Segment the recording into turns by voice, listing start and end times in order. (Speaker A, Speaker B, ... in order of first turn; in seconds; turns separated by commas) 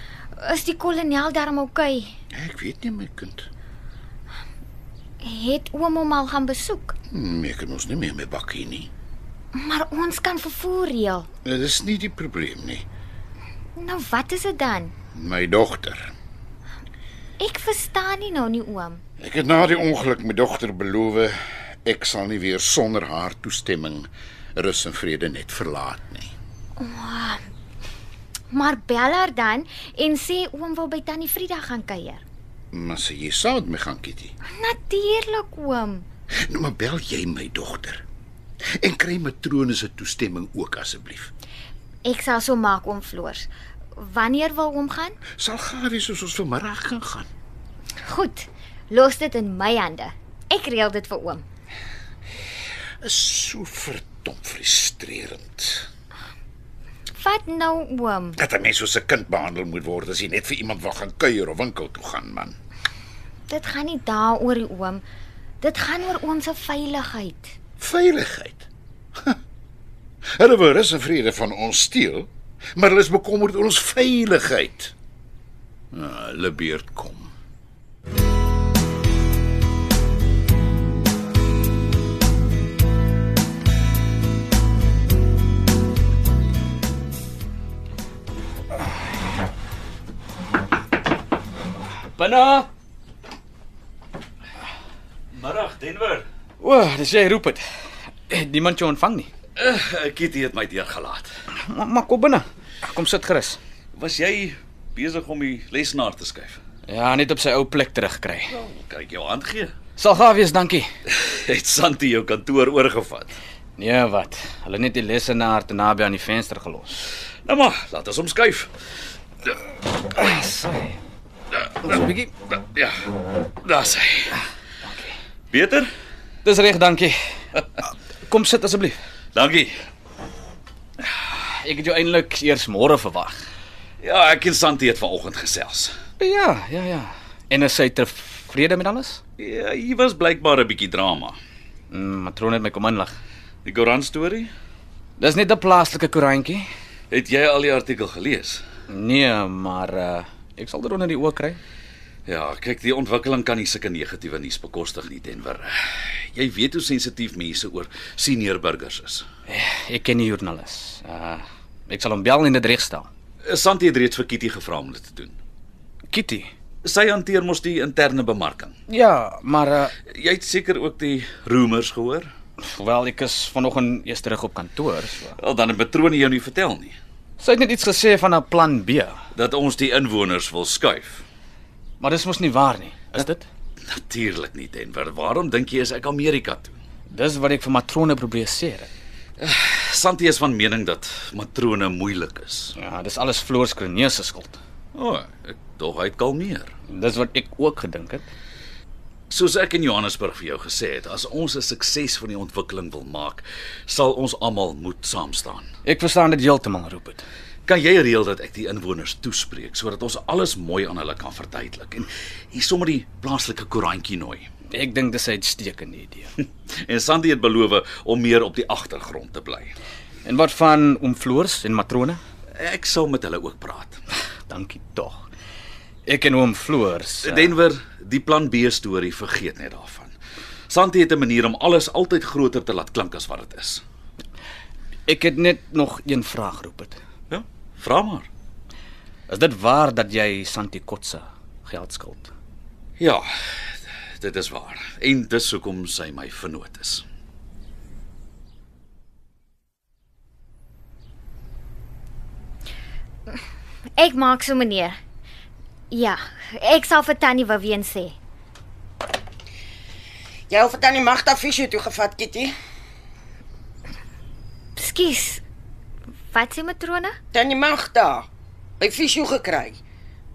Speaker A: 0.3-2.1, Speaker B: 2.3-3.5, Speaker A: 5.2-7.0, Speaker B: 7.1-8.9, Speaker A: 9.5-11.3, Speaker B: 11.4-12.8, Speaker A: 13.8-14.9, Speaker B: 15.1-16.1, Speaker A: 17.4-19.0, Speaker B: 19.2-26.3, Speaker A: 26.8-27.4, Speaker A: 28.5-32.2, Speaker B: 32.7-34.3, Speaker A: 34.5-36.0, Speaker B: 36.4-38.0, Speaker B: 38.8-41.3, Speaker A: 42.0-45.2, Speaker B: 45.4-47.3, Speaker A: 48.0-51.4, Speaker B: 53.0-55.9, Speaker A: 57.1-58.4, Speaker B: 58.4-62.5, Speaker A: 63.5-65.0, Speaker A: 65.6-67.5, Speaker B: 67.8-68.7, Speaker B: 70.3-74.9, Speaker B: 75.9-77.3, Speaker C: 92.2-92.7, Speaker D: 95.3-96.2, Speaker C: 96.6-97.6, Speaker C: 98.3-99.3, Speaker D: 99.6-101.3, Speaker C: 101.5-103.6, Speaker D: 103.9-106.6, Speaker C: 106.9-108.5, Speaker D: 108.5-109.7, Speaker C: 110.0-110.9, Speaker D: 111.1-113.3, Speaker C: 113.8-117.0, Speaker D: 117.4-118.7, Speaker C: 120.1-121.0, Speaker C: 121.8-122.3, Speaker D: 122.5-122.9, Speaker D: 123.6-124.4, Speaker C: 124.8-125.1, Speaker D: 125.5-125.9, Speaker C: 126.4-127.2, Speaker C: 127.8-128.9, Speaker D: 129.3-129.7, Speaker C: 131.4-133.4, Speaker D: 134.0-135.9, Speaker C: 136.2-139.2, Speaker D: 139.4-141.4, Speaker C: 141.9-143.1, Speaker D: 143.6-144.5, Speaker C: 145.2-146.6, Speaker D: 147.1-148.6, Speaker C: 148.9-151.6, Speaker D: 152.2-159.2, Speaker C: 159.5-163.1, Speaker D: 163.4-165.4, Speaker C: 166.1-166.5, Speaker D: 166.8-168.8, Speaker C: 168.9-169.9, Speaker D: 170.1-172.3, Speaker C: 172.6-175.4, Speaker D: 175.4-176.9, Speaker C: 177.4-179.2, Speaker D: 179.3-181.2, Speaker C: 182.0-183.5, Speaker D: 183.9-186.8, Speaker C: 187.1-188.9, Speaker D: 189.4-192.7, Speaker C: 192.8-194.6, Speaker D: 194.9-196.7, Speaker C: 196.9-198.2, Speaker D: 199.3-205.7, Speaker C: 205.8-207.2, Speaker D: 207.7-214.5, Speaker C: 214.7-216.3, Speaker D: 216.7-219.8, Speaker C: 220.2-222.2, Speaker D: 222.6-224.0, Speaker C: 224.5-225.3, Speaker C: 226.1-227.5, Speaker D: 227.2-230.1, Speaker D: 230.7-233.8, Speaker C: 235.1-237.0, Speaker D: 237.3-238.3, Speaker C: 239.3-242.3, Speaker D: 243.0-243.2, Speaker D: 244.2-247.0, Speaker A: 254.0-255.0, Speaker A: 255.9-258.1, Speaker E: 260.5-262.5, Speaker A: 264.8-265.4, Speaker A: 266.3-267.1, Speaker E: 267.3-268.3, Speaker E: 268.8-269.8